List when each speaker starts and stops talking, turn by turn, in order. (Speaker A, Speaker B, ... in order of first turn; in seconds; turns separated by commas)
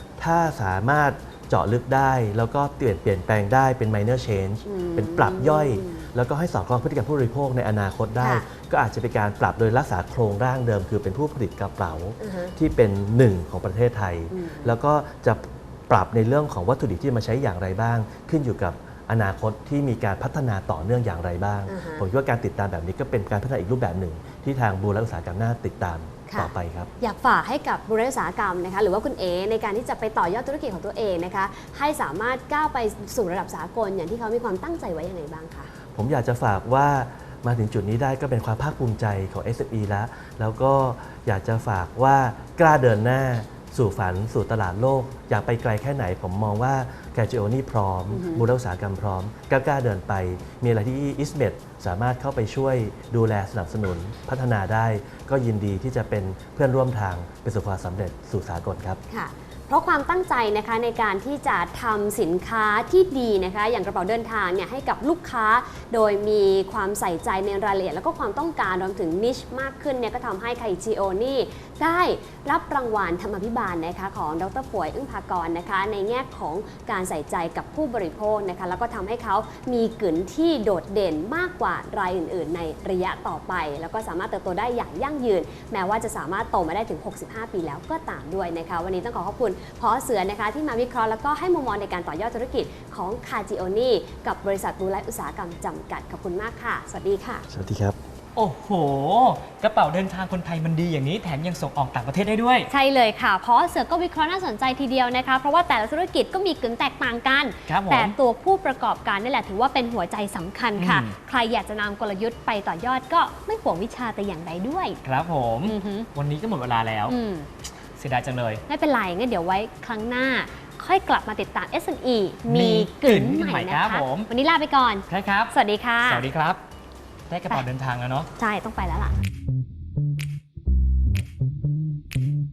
Speaker A: 0.2-26.9, Speaker B: 4.7-6.1, Speaker B: 8.2-8.5, Speaker B: 12.2-12.6, Speaker B: 14.3-14.7, Speaker B: 21.7-22.1, Speaker B: 26.3-35.7, Speaker A: 35.9-59.0, Speaker B: 48.1-48.4, Speaker B: 59.1-97.5, Speaker A: 97.5-98.0, Speaker C: 98.4-102.7, Speaker B: 102.7-115.0, Speaker C: 107.7-108.2, Speaker C: 110.8-111.2, Speaker C: 115.0-117.2, Speaker B: 115.7-116.1, Speaker B: 117.1-117.5, Speaker C: 118.0-118.6, Speaker B: 118.7-126.3, Speaker C: 122.5-124.3, Speaker C: 125.1-125.5, Speaker C: 126.1-126.6, Speaker C: 127.3-128.3, Speaker B: 128.4-129.2